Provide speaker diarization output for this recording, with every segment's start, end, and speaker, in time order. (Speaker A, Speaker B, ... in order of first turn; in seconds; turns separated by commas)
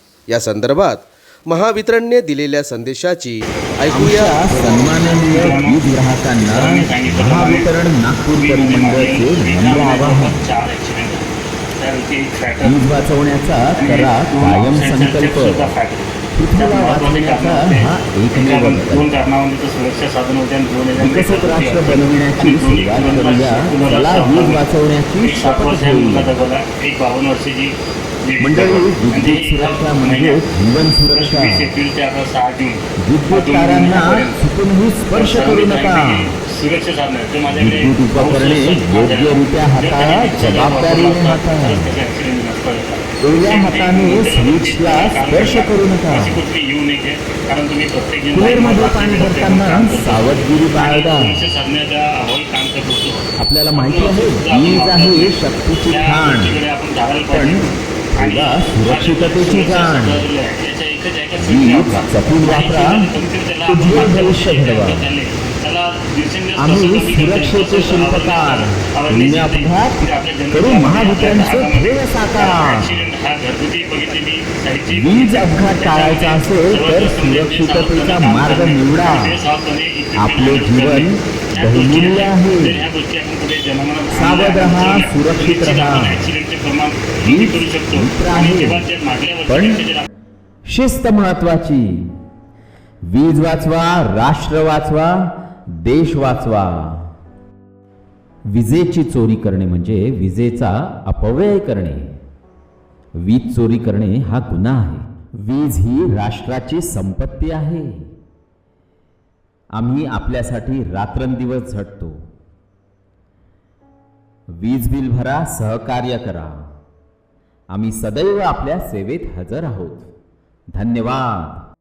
Speaker A: 0.3-4.8, Speaker B: 3.9-10.4, Speaker C: 4.7-5.8, Speaker C: 6.4-7.7, Speaker C: 8.3-12.8, Speaker B: 12.6-15.7, Speaker C: 13.7-30.4, Speaker B: 16.4-19.1, Speaker B: 21.0-26.3, Speaker B: 28.4-31.7, Speaker C: 31.0-34.4, Speaker B: 33.0-36.2, Speaker C: 35.1-90.1, Speaker B: 37.5-41.9, Speaker B: 43.2-46.4, Speaker B: 48.3-51.4, Speaker B: 53.4-56.6, Speaker B: 57.3-57.6, Speaker B: 58.1-60.2, Speaker B: 61.4-63.1, Speaker B: 63.7-65.1, Speaker B: 66.6-73.0, Speaker B: 74.9-79.4, Speaker B: 80.2-82.8, Speaker B: 84.1-86.3, Speaker B: 87.2-88.9, Speaker B: 89.5-89.8, Speaker B: 90.7-92.1, Speaker B: 93.1-97.1, Speaker B: 98.5-102.2, Speaker B: 103.2-108.1, Speaker B: 109.7-112.2, Speaker B: 114.5-116.7, Speaker B: 117.7-120.1, Speaker B: 120.7-121.6